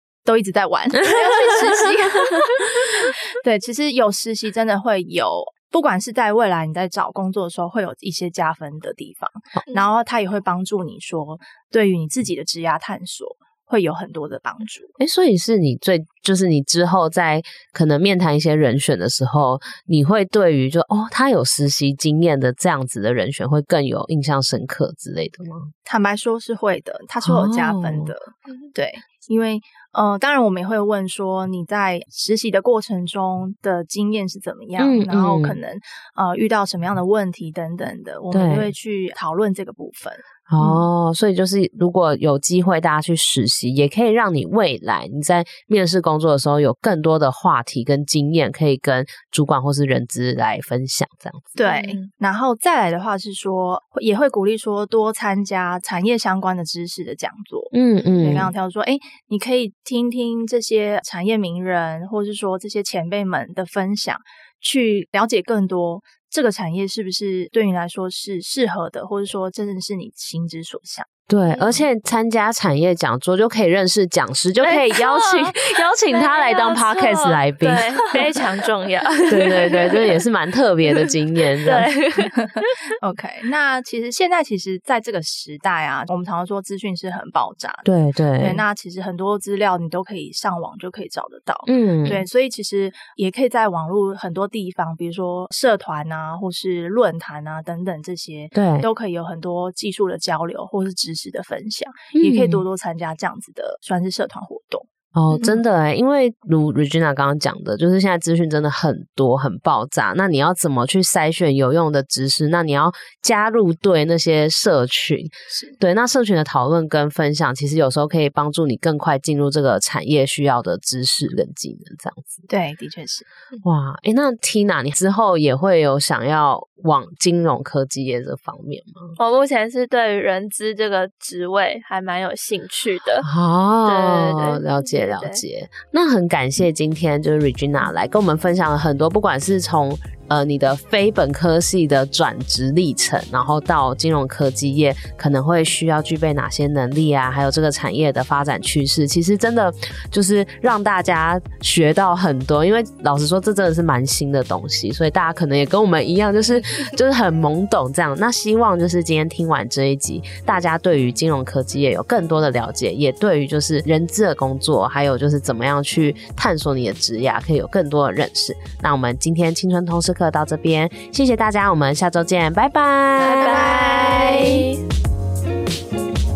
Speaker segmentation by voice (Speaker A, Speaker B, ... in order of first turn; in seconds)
Speaker A: 0.2-14.9, 25.8-40.8, 51.5-71.1, 83.0-87.8, 88.4-104.9, 115.5-115.8, 122.5-123.2, 173.4-174.7
Speaker B: 15.0-25.7, 27.2-28.1, 34.8-35.6, 38.3-38.7, 40.5-51.5, 57.7-58.5, 71.3-78.2, 79.3-81.9, 87.8-88.6, 91.7-92.2, 98.5-98.9, 102.1-102.6, 105.1-122.5, 123.6-129.1, 133.2-173.7
Speaker C: 51.6-52.0, 58.0-58.4, 71.5-71.8, 74.6-80.2, 80.8-81.1, 81.6-82.7, 129.2-133.3, 133.8-135.4, 173.2-174.8